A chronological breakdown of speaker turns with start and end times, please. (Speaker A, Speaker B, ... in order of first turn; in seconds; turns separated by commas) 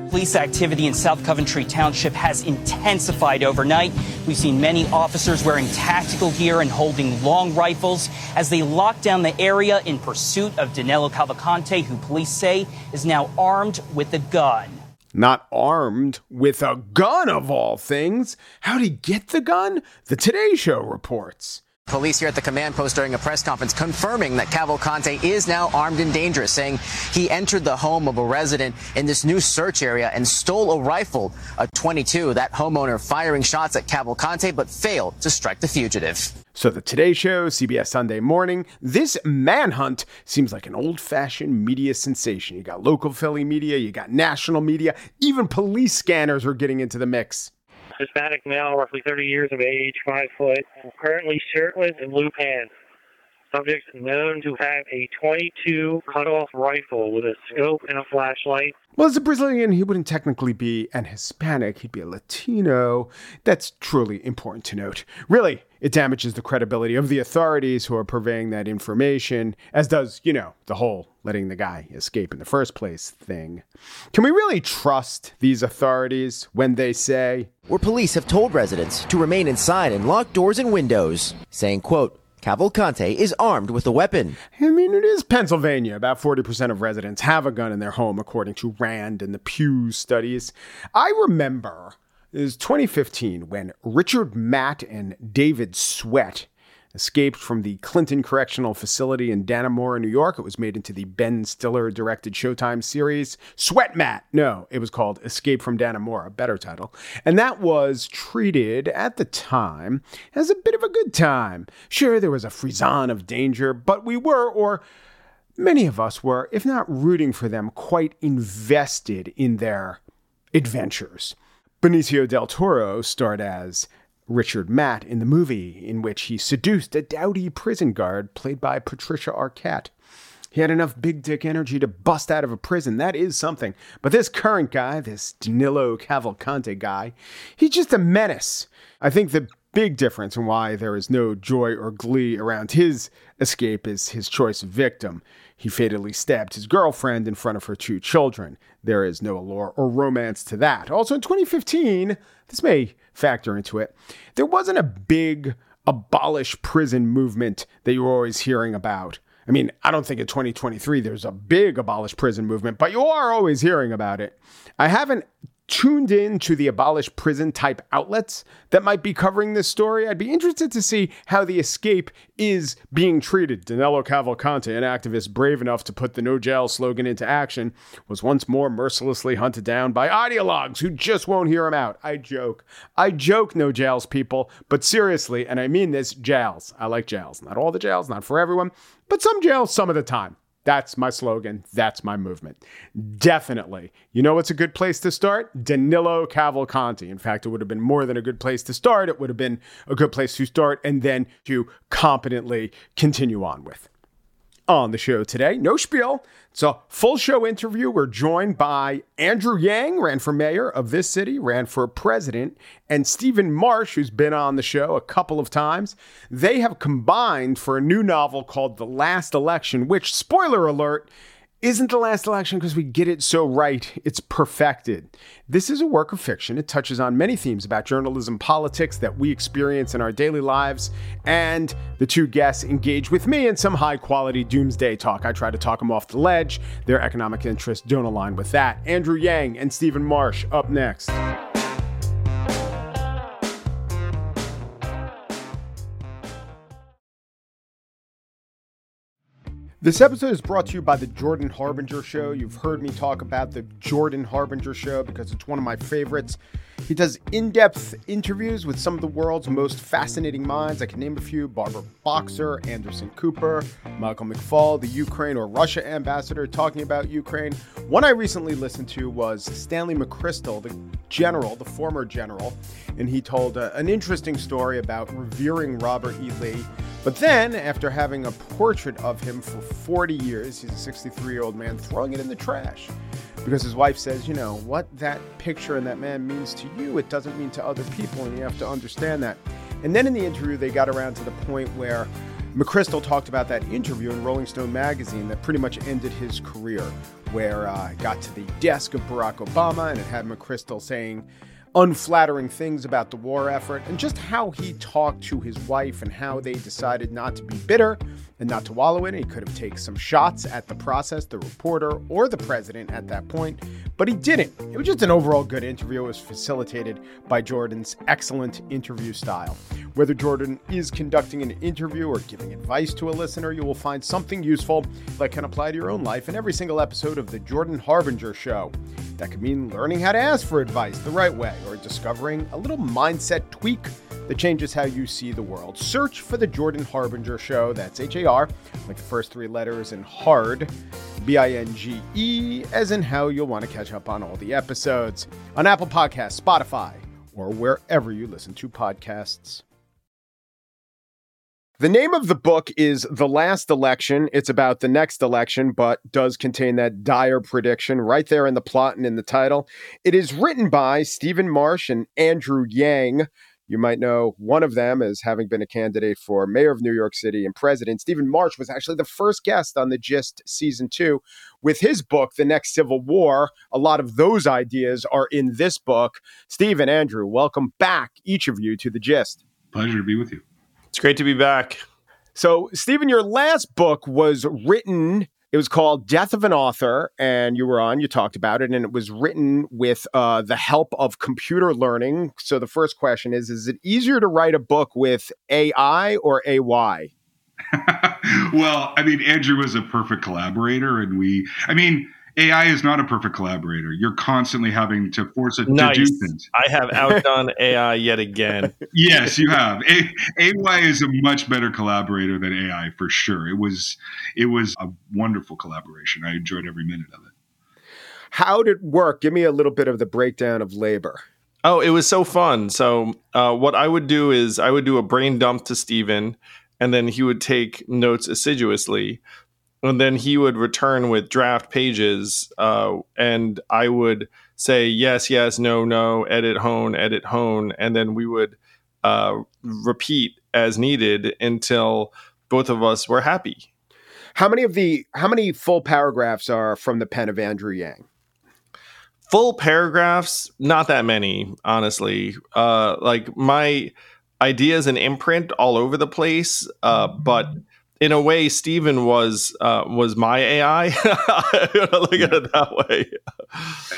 Speaker A: 0.1-14.8, Speaker B: 15.1-21.6, Speaker C: 21.9-36.3, Speaker B: 36.5-47.5, Speaker D: 47.9-52.7, Speaker D: 53.5-58.7, Speaker B: 59.0-77.5, Speaker E: 77.7-84.4, Speaker B: 84.5-114.8, Speaker B: 115.6-120.0, Speaker B: 120.5-129.9, Speaker B: 130.5-203.9, Speaker B: 204.7-221.1, Speaker B: 221.6-241.2, Speaker B: 249.8-340.7, Speaker B: 341.2-349.6, Speaker B: 351.8-379.4, Speaker F: 379.7-380.4, Speaker G: 380.9-381.8, Speaker B: 382.4-397.1, Speaker F: 397.7-406.4, Speaker G: 405.7-408.7, Speaker F: 408.9-417.3, Speaker B: 418.3-421.2, Speaker G: 421.6-429.2, Speaker G: 429.8-443.6, Speaker B: 444.3-448.1, Speaker G: 449.3-463.8